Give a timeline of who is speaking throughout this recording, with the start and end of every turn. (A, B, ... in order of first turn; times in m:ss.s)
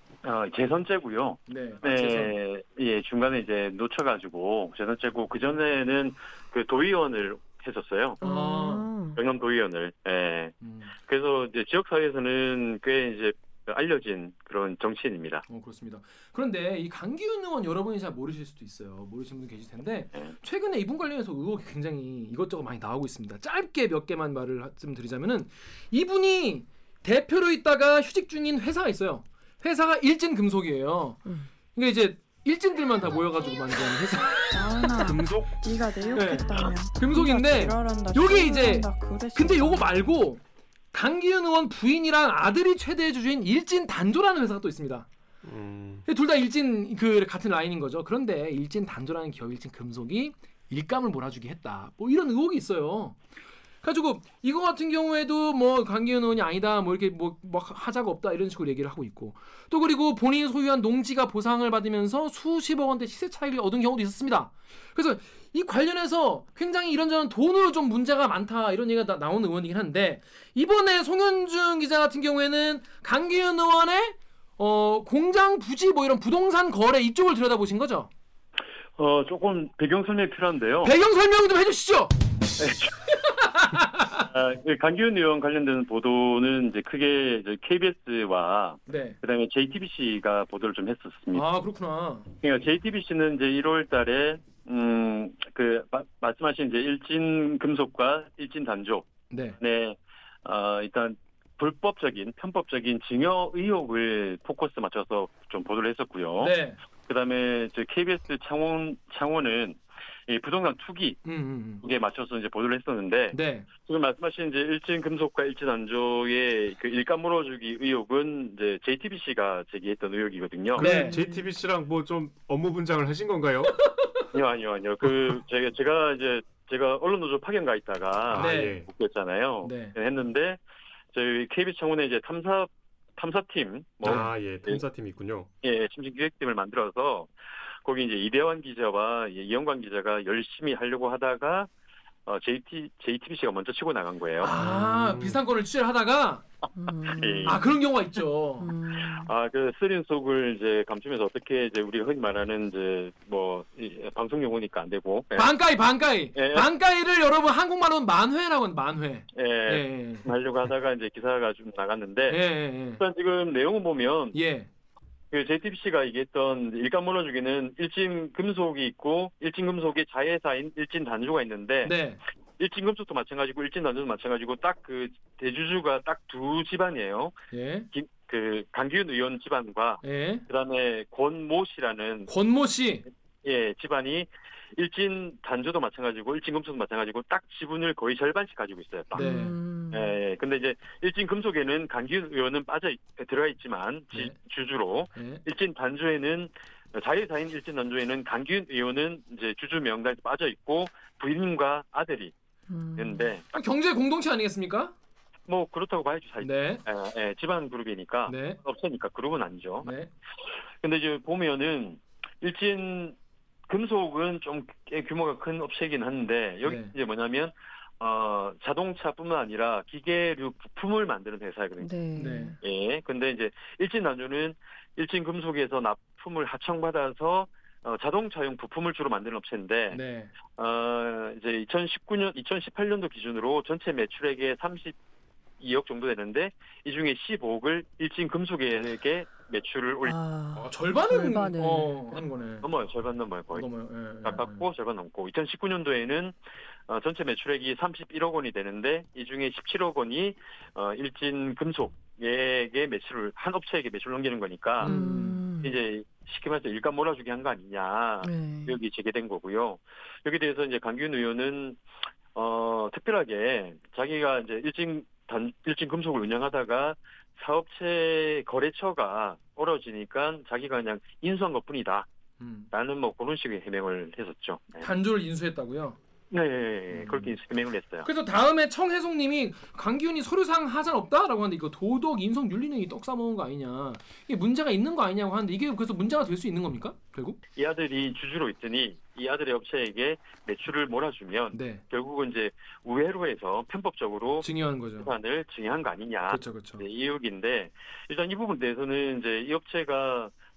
0:00.2-0:08.2 A
0:01.5-0:02.3 B
0:08.2-0:09.2 C
0:08.2-0:08.9 B
0:09.2-0:15.4 A
0:10.6-0:10.9 B
0:15.5-0:31.2 B
0:31.7-0:34.9 B
0:34.5-0:40.0 D
0:35.0-0:35.6 E
0:36.1-0:40.4 B
0:40.9-0:45.1 B
0:45.4-0:46.0 E
0:46.0-0:53.2 B
0:53.8-1:18.1 B
1:19.0-1:20.9 A
1:20.8-1:22.1 B
1:22.6-1:22.9 A
1:23.3-1:24.3 B
1:24.2-1:31.4 A
1:28.9-1:29.2 B
1:31.3-1:32.3 B
1:32.4-1:46.6 A
1:39.3-1:39.6 B
1:46.4-1:46.8 B
1:47.1-1:51.2 A
1:51.2-1:51.8 B
1:51.8-2:00.8 A
1:53.3-1:53.7 B
2:00.8-2:03.9 E
2:00.8-2:01.2 B
2:00.8-2:01.5 C
2:03.8-2:04.2 B
2:04.3-2:10.6 A
2:08.3-2:08.9 E
2:08.4-2:08.8 B
2:09.6-2:09.9 B
2:11.1-2:14.8 A
2:14.0-2:15.5 E
2:15.6-2:17.3 A
2:17.8-2:21.7 A
2:22.2-2:24.5 A
2:24.4-2:26.4 B
2:24.6-2:25.4 E
2:26.8-2:27.7 C
2:27.2-2:27.7 A
2:27.4-2:28.7 B
2:28.6-2:29.3 C
2:29.0-2:35.5 A
2:35.3-2:40.3 B
2:36.3-2:36.7 A
2:39.3-2:42.4 A
2:42.3-2:43.0 B
2:43.0-2:44.4 A
2:44.3-2:44.7 B
2:45.3-2:52.0 A
2:51.8-2:52.2 B
2:52.6-2:57.3 A
2:57.5-2:57.9 B
2:57.9-3:02.3 A
3:00.0-3:00.4 B
3:02.3-3:03.0 B
3:03.4-3:09.3 A
3:09.1-3:09.6 B
3:09.1-3:10.1 C
3:09.9-3:22.3 A
3:15.1-3:15.4 B
3:22.7-3:23.3 C
3:23.0-3:23.4 A
3:23.5-3:24.9 B
3:25.5-3:29.9 A
3:26.4-3:26.8 B
3:28.3-3:28.6 B
3:29.8-3:30.1 B
3:30.8-3:33.2 A
3:33.7-3:41.9 A
3:36.6-3:36.9 B
3:41.8-3:42.6 C
3:42.2-3:42.6 B
3:42.6-3:50.0 A
3:49.9-3:50.3 B
3:50.5-3:54.9 A
3:55.6-4:00.2 A
4:00.0-4:02.2 C
4:00.5-4:02.7 B
4:02.6-4:03.6 A
4:03.5-4:04.6 B
4:04.2-4:06.3 A
4:06.9-4:15.0 A
4:14.8-4:15.4 B
4:14.8-4:15.8 C
4:15.6-4:21.8 A
4:18.2-4:18.8 C
4:22.3-4:32.1 A
4:32.4-4:32.7 B
4:32.7-4:34.8 A
4:34.8-4:36.0 B
4:36.3-4:38.1 A
4:36.9-4:37.4 B
4:38.0-4:47.4 B
4:47.6-4:54.5 A
4:51.5-4:51.8 B
4:54.4-4:55.1 B
4:55.0-5:00.3 A
4:56.3-4:56.8 B